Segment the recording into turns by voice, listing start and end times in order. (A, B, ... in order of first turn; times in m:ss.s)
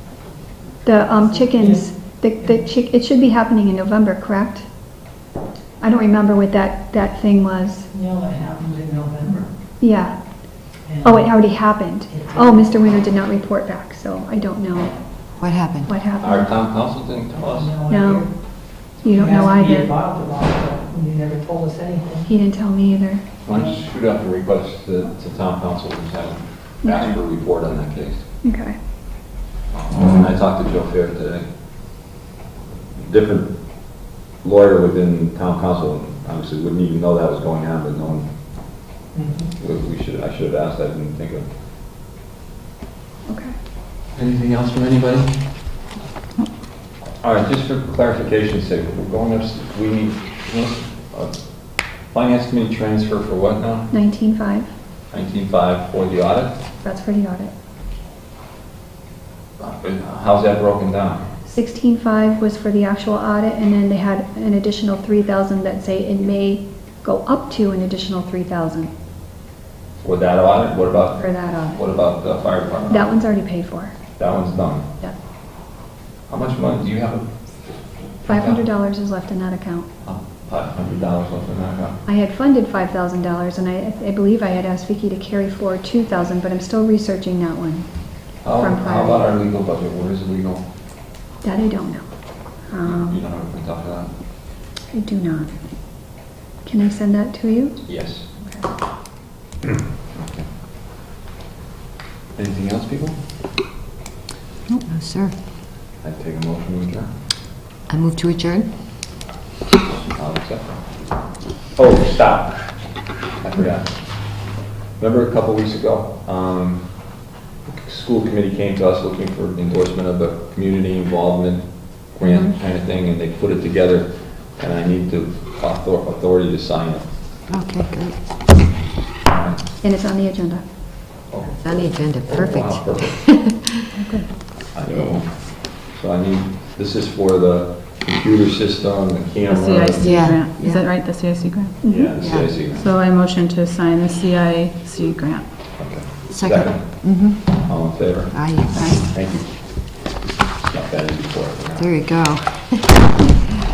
0:00.8-0:04.7 A
0:05.8-0:07.9 A
0:08.0-0:09.5 B
0:09.8-0:10.2 A
0:11.0-0:15.0 A
0:15.4-0:15.9 C
0:15.8-0:16.5 A
0:16.2-0:17.8 D
0:17.9-0:19.9 A
0:19.2-0:22.2 B
0:22.2-0:23.2 A
0:23.4-0:28.2 D
0:26.8-0:27.2 A
0:28.4-0:28.8 A
0:29.9-0:31.4 D
0:33.0-0:33.5 D
0:34.4-0:38.3 D
0:39.6-0:41.5 D
0:43.3-0:43.5 A
0:44.1-0:45.3 D
0:47.2-0:51.4 D
0:52.1-0:53.9 D
0:53.9-0:54.7 A
0:55.1-0:56.6 D
0:56.8-0:57.5 A
0:59.6-1:01.2 D
1:01.5-1:08.9 A
1:10.0-1:13.2 D
1:11.2-1:11.8 A
1:12.9-1:13.9 A
1:14.2-1:14.8 D
1:16.3-1:17.4 D
1:18.2-1:18.6 D
1:18.3-1:19.9 A
1:20.0-1:22.0 D
1:22.0-1:27.9 A
1:28.4-1:30.6 D
1:28.4-1:29.2 A
1:31.4-1:32.0 A
1:32.6-1:33.2 A
1:32.8-1:34.1 D
1:34.9-1:35.6 A
1:36.6-1:37.8 A
1:37.8-1:38.2 D
1:39.6-1:40.4 D
1:42.3-1:43.2 D
1:44.7-1:45.4 C
1:46.0-1:47.1 D
1:47.9-1:49.1 C
1:50.1-1:50.7 D
1:51.7-2:07.1 D
2:02.2-2:02.5 C
2:07.5-2:08.2 C
2:09.2-2:09.6 D
2:09.8-2:10.6 A
2:11.3-2:13.4 D
2:11.6-2:13.8 C
2:14.0-2:14.3 A
2:14.7-2:20.2 D
2:19.4-2:25.5 E
2:20.0-2:20.9 C
2:21.8-2:22.1 A
2:21.8-2:22.9 D
2:22.2-2:22.5 C
2:25.8-2:27.0 D
2:26.3-2:29.1 C
2:27.6-2:31.9 D
2:28.8-2:29.0 E
2:31.8-2:33.1 C